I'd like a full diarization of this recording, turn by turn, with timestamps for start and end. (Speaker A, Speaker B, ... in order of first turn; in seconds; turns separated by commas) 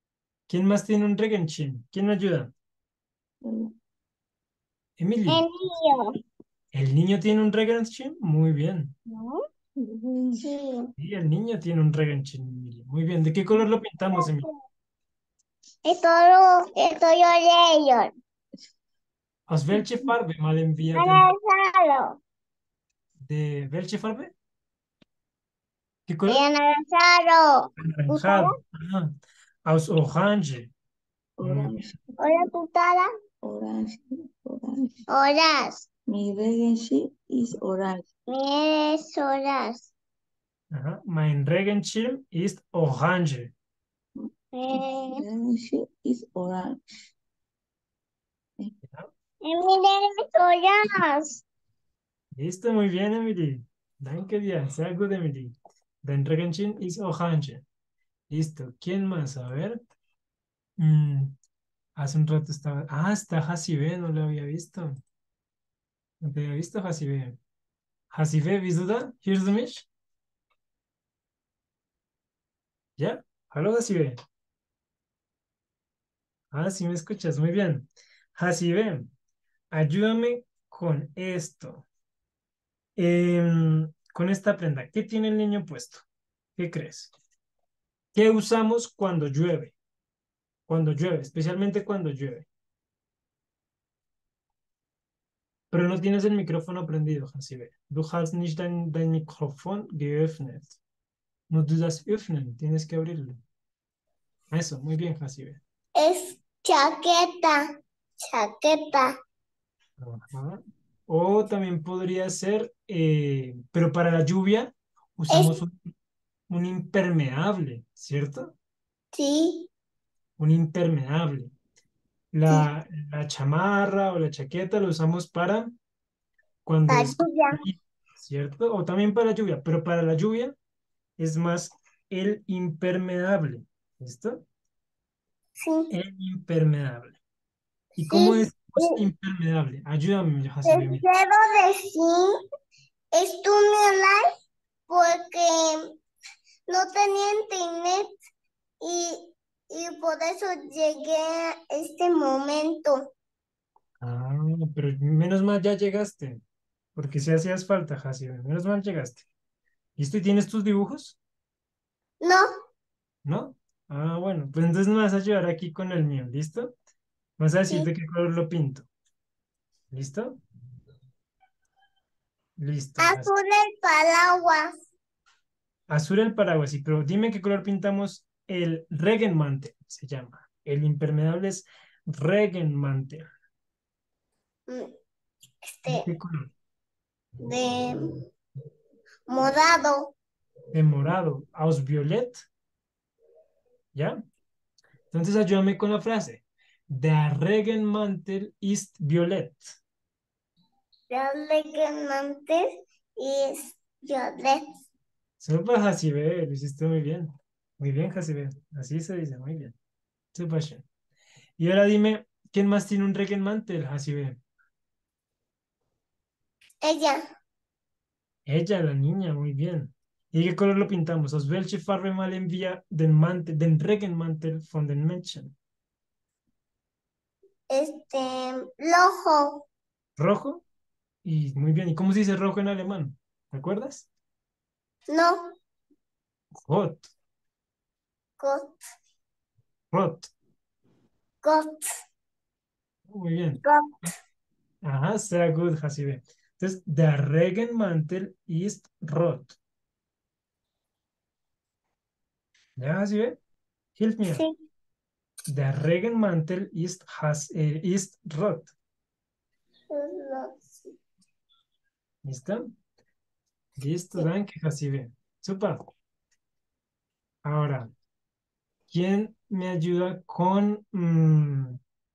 Speaker A: 0.5-2.5, Speaker B: 3.4-3.7, Speaker A: 5.0-5.4, Speaker C: 5.3-6.0, Speaker A: 6.7-8.9, Speaker C: 9.1-9.4, Speaker B: 9.8-10.4, Speaker C: 10.4-10.9, Speaker A: 11.0-14.5, Speaker C: 14.2-14.5, Speaker C: 15.8-18.1, Speaker A: 19.5-21.3, Speaker C: 20.9-22.2, Speaker A: 23.2-24.3, Speaker A: 26.1-26.4, Speaker C: 26.3-28.5, Speaker A: 27.8-29.1, Speaker A: 29.6-30.7, Speaker B: 31.4-31.9, Speaker A: 31.4-31.8, Speaker C: 32.2-33.1, Speaker B: 33.4-35.0, Speaker C: 35.1-35.9, Speaker B: 36.1-38.0, Speaker C: 38.3-39.9, Speaker A: 40.7-43.5, Speaker C: 44.5-45.2, Speaker B: 44.7-46.8, Speaker A: 48.8-49.1, Speaker C: 49.4-51.4, Speaker A: 52.3-57.6, Speaker A: 58.3-59.8, Speaker A: 60.8-61.4, Speaker A: 62.0-65.0, Speaker A: 66.2-67.4, Speaker A: 68.1-69.9, Speaker A: 73.0-74.2, Speaker A: 76.5-79.1, Speaker A: 79.7-81.9, Speaker A: 83.0-86.0, Speaker A: 86.6-87.1, Speaker A: 88.1-89.7, Speaker A: 90.7-92.5, Speaker A: 95.7-100.8, Speaker A: 101.5-103.4, Speaker A: 104.5-105.6, Speaker C: 105.9-109.1, Speaker A: 110.0-115.8, Speaker C: 115.3-115.6, Speaker A: 116.5-118.5, Speaker C: 119.1-119.7, Speaker A: 120.4-121.5, Speaker A: 122.3-125.7, Speaker A: 126.7-130.5, Speaker C: 126.9-127.6, Speaker A: 131.2-134.4, Speaker C: 135.6-135.9, Speaker A: 135.9-137.2, Speaker A: 137.9-141.1, Speaker C: 138.1-139.0, Speaker C: 140.6-142.4, Speaker C: 143.1-144.3, Speaker C: 144.9-146.0, Speaker C: 146.7-148.1, Speaker C: 148.8-153.1, Speaker A: 154.0-156.4, Speaker A: 156.9-159.2, Speaker A: 160.0-161.2, Speaker C: 162.2-162.5, Speaker A: 163.2-166.7, Speaker A: 167.4-168.9, Speaker A: 169.9-170.4, Speaker A: 172.6-173.3, Speaker C: 173.0-174.7, Speaker A: 175.9-183.3, Speaker C: 184.7-184.9, Speaker C: 185.6-186.1, Speaker A: 185.9-186.5, Speaker C: 187.4-188.0, Speaker C: 189.3-190.1, Speaker A: 190.7-192.4, Speaker A: 193.9-194.2, Speaker A: 195.1-199.7, Speaker C: 201.1-202.7, Speaker C: 203.2-204.6, Speaker A: 205.4-209.8, Speaker A: 210.3-210.8, Speaker A: 211.6-214.4, Speaker C: 216.8-217.2, Speaker A: 218.4-225.5, Speaker C: 227.7-229.6, Speaker A: 230.2-230.6, Speaker A: 231.2-234.1, Speaker C: 235.1-235.6, Speaker A: 236.7-237.1, Speaker C: 238.4-238.8, Speaker A: 239.9-240.3, Speaker C: 241.4-241.8, Speaker A: 243.1-243.6, Speaker C: 243.6-243.9, Speaker A: 244.8-249.6, Speaker A: 252.8-253.4, Speaker A: 254.0-254.4, Speaker C: 254.3-254.6, Speaker A: 255.5-258.7, Speaker C: 259.9-260.9, Speaker A: 262.2-262.7, Speaker A: 263.8-265.8, Speaker A: 267.4-267.9, Speaker A: 268.9-271.8